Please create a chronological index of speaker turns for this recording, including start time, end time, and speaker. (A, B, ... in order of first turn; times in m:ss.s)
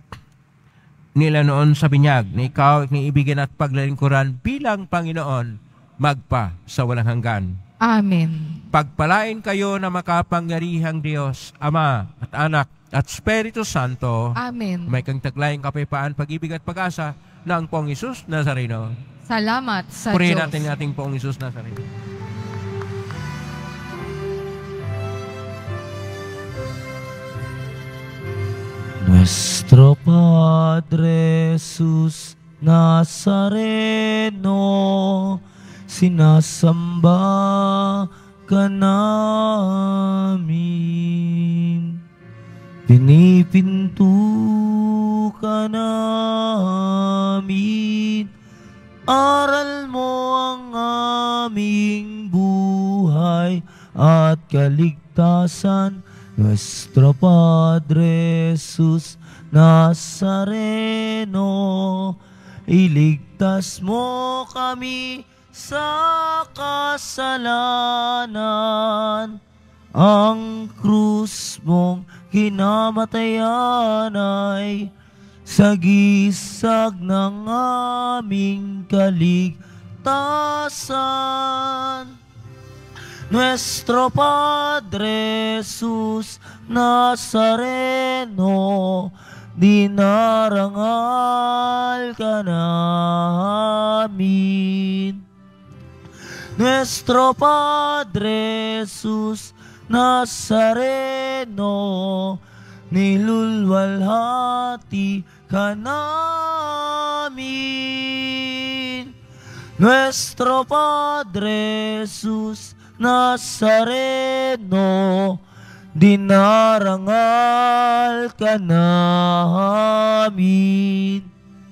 0:01.2-0:07.6 A
0:07.8-0:08.6 B
0:08.7-0:14.4 A
0:14.4-0:15.0 B
0:14.9-0:19.0 A
0:19.3-0:20.6 B
0:20.1-0:21.8 A
0:29.0-0:42.0 C
0:42.9-0:48.3 C
0:49.1-1:02.2 C
1:02.7-1:09.4 C
1:10.0-1:14.9 C
1:15.5-1:22.1 C
1:23.3-1:35.2 C
1:36.6-1:49.1 C
1:49.8-1:55.4 C
1:56.0-2:01.3 C